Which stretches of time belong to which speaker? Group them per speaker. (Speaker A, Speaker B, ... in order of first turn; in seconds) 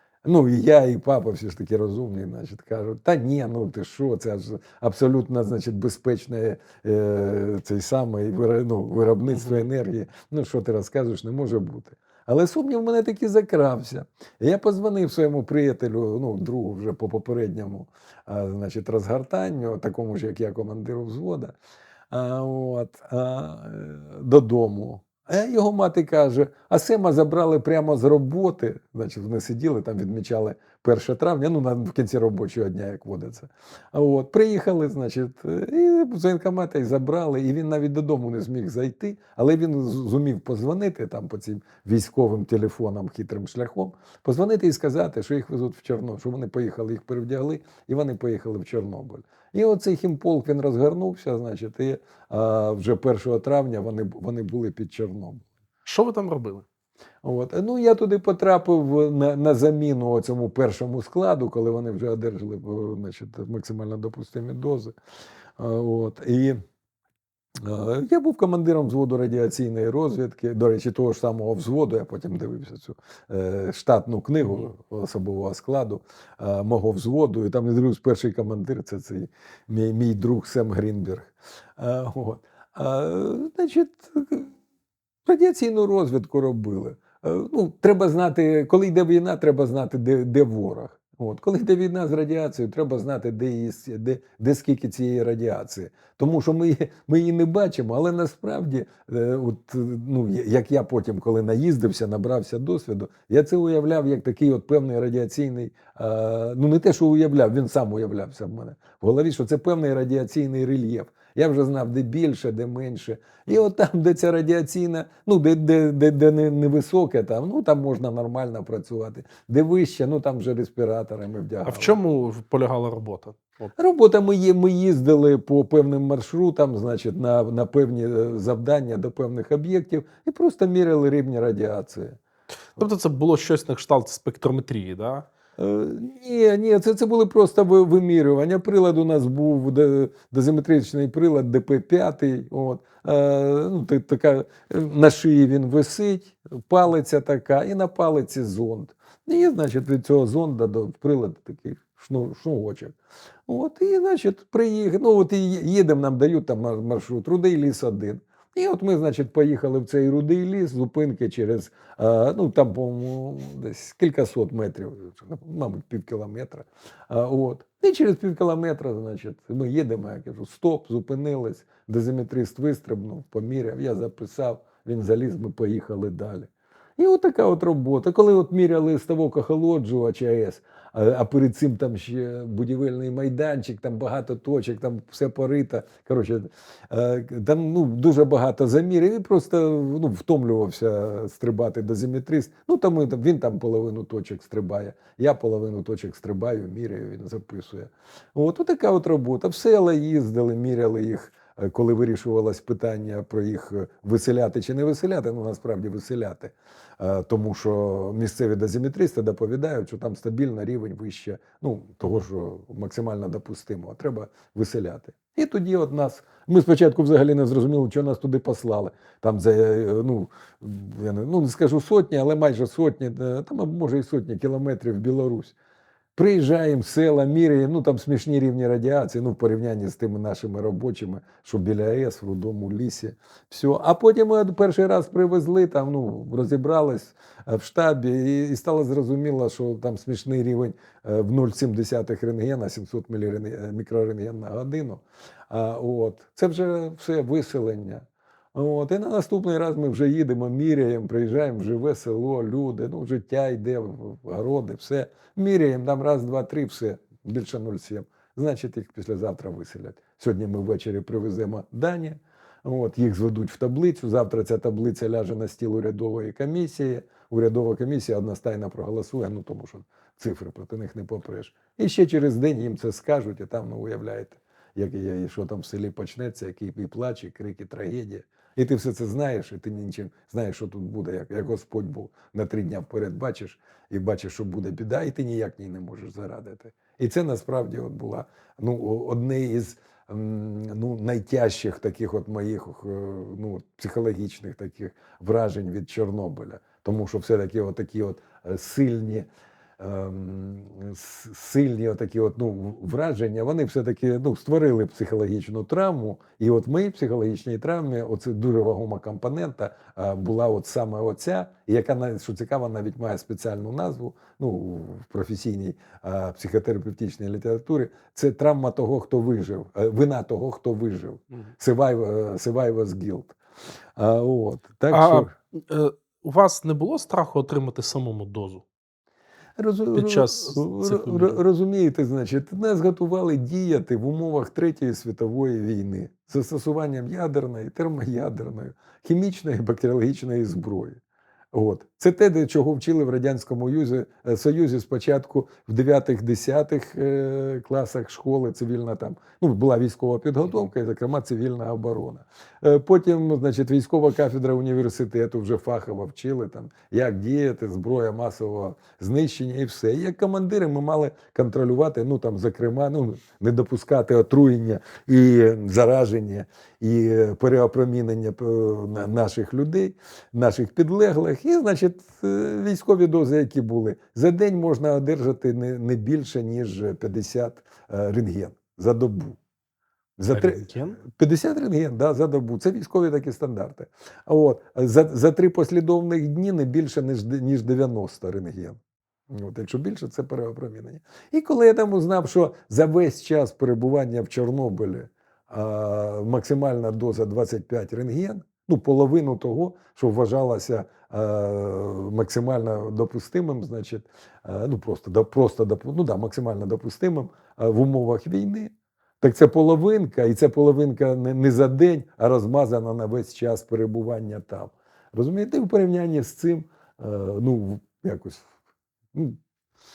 Speaker A: 0.2-21.6, 22.1-55.5, 57.2-65.0, 65.6-66.6, 67.6-84.5, 85.3-122.0, 123.8-132.2, 135.6-152.9, 153.5-225.5, 226.2-299.3, 299.8-323.4, 324.0-325.3, 329.6-341.0, 341.5-379.4, 380.2-388.8, 389.3-418.5
Speaker B: 9.3-9.7, 55.9-56.7, 121.7-123.7, 132.8-135.3, 324.9-328.6, 329.9-331.4, 380.3-381.0